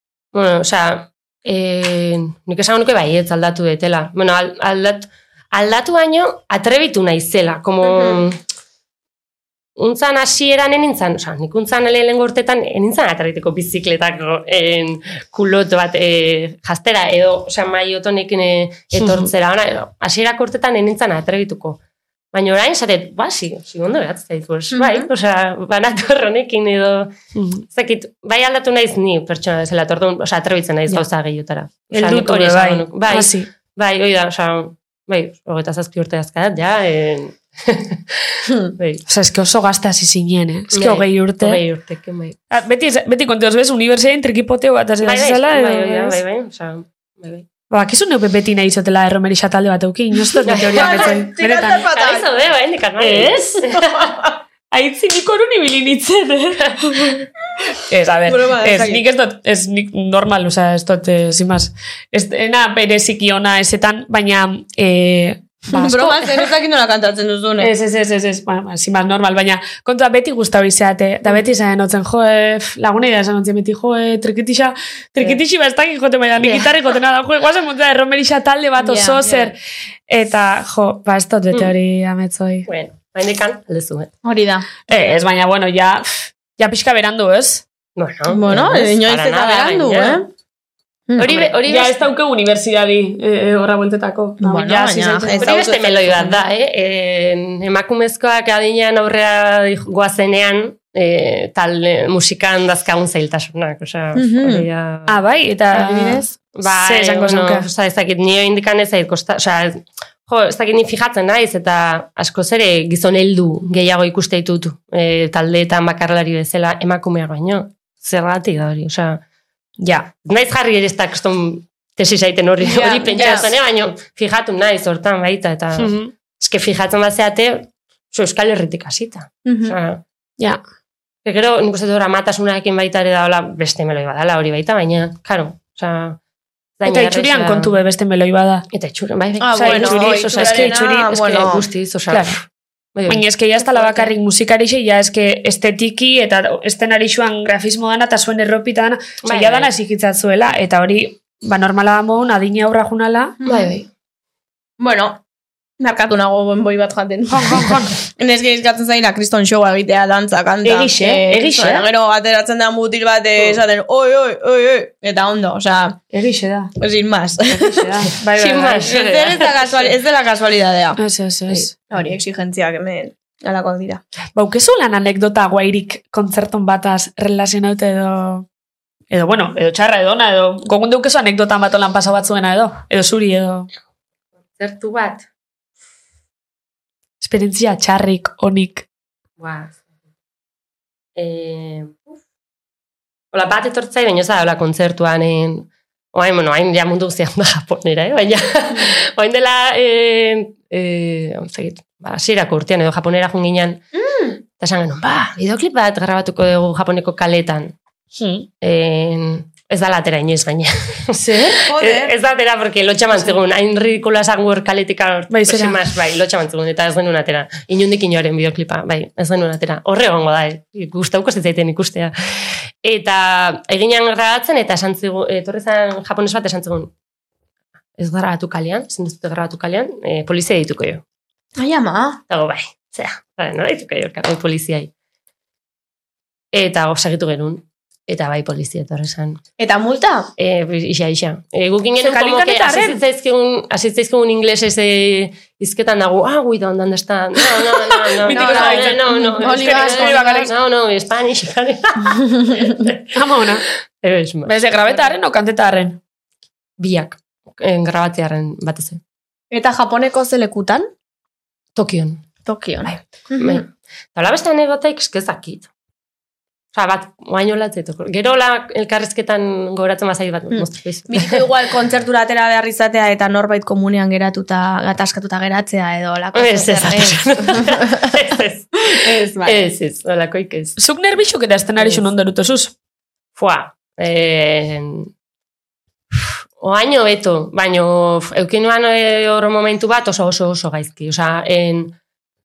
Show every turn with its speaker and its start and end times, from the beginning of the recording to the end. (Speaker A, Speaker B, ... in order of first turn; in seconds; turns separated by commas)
Speaker A: 0.3-8.4, Speaker A: 9.8-21.8, Speaker B: 18.9-19.3, Speaker A: 22.3-27.1, Speaker C: 24.7-25.1, Speaker B: 27.3-27.6, Speaker A: 27.7-39.0, Speaker B: 31.9-33.5, Speaker B: 39.1-41.6, Speaker A: 40.7-42.4, Speaker B: 42.5-46.2, Speaker A: 45.0-47.5, Speaker B: 47.7-51.9, Speaker A: 50.5-51.2, Speaker C: 50.7-52.3, Speaker A: 51.9-53.8, Speaker B: 53.0-53.7, Speaker C: 53.7-54.3, Speaker B: 54.7-57.2, Speaker B: 57.8-66.2, Speaker C: 58.3-59.0, Speaker C: 65.7-67.7, Speaker B: 67.6-79.6, Speaker C: 78.8-79.2, Speaker A: 79.2-79.5, Speaker B: 80.1-82.7, Speaker A: 82.7-84.1, Speaker C: 84.2-84.8, Speaker B: 84.9-87.6, Speaker A: 88.0-90.2, Speaker C: 88.3-90.3, Speaker C: 91.1-91.5, Speaker A: 91.2-92.0, Speaker B: 91.2-95.6, Speaker C: 94.4-96.3, Speaker A: 95.4-105.2, Speaker C: 104.1-104.7, Speaker B: 105.1-107.7, Speaker C: 105.8-106.2, Speaker A: 106.5-119.2, Speaker B: 119.8-120.1, Speaker A: 120.2-130.0, Speaker C: 122.6-123.5, Speaker B: 125.8-126.1, Speaker C: 129.4-129.8, Speaker A: 131.2-136.2, Speaker A: 136.8-137.7, Speaker B: 136.8-138.7, Speaker A: 138.7-142.4, Speaker C: 139.4-141.7, Speaker B: 139.5-141.3, Speaker B: 142.1-142.4, Speaker A: 142.9-144.1, Speaker B: 143.1-153.4, Speaker A: 149.2-149.7, Speaker C: 153.4-153.7, Speaker A: 153.4-153.9, Speaker C: 154.8-155.2, Speaker C: 155.8-166.0, Speaker B: 157.3-157.9, Speaker B: 160.6-161.9, Speaker B: 166.1-166.7, Speaker C: 166.8-167.9, Speaker B: 167.5-169.0, Speaker A: 168.2-169.6, Speaker C: 168.8-171.0, Speaker B: 171.0-171.7, Speaker C: 171.9-174.0, Speaker B: 174.3-178.5, Speaker B: 179.1-183.7, Speaker A: 184.6-185.2, Speaker B: 187.2-188.8, Speaker A: 189.4-189.8, Speaker A: 191.2-192.2, Speaker A: 193.3-203.8, Speaker C: 203.9-204.3, Speaker A: 204.6-207.7, Speaker B: 208.2-208.5, Speaker A: 208.6-226.9, Speaker C: 211.4-212.1, Speaker B: 215.3-215.8, Speaker A: 228.0-231.0, Speaker C: 231.6-232.2, Speaker A: 232.3-234.9, Speaker A: 236.5-239.4, Speaker C: 239.6-240.3, Speaker A: 240.4-253.4, Speaker B: 242.0-243.0, Speaker B: 248.0-250.5, Speaker C: 248.3-250.4, Speaker B: 253.1-253.6, Speaker A: 254.0-255.1, Speaker B: 254.4-256.0, Speaker A: 256.8-259.0, Speaker C: 259.5-260.9, Speaker A: 261.8-262.2, Speaker C: 262.4-263.6, Speaker A: 263.4-265.7, Speaker A: 266.7-271.4, Speaker C: 270.5-277.9, Speaker A: 276.3-280.8, Speaker C: 278.9-279.6, Speaker B: 280.8-282.7, Speaker A: 283.4-285.1, Speaker A: 286.6-291.9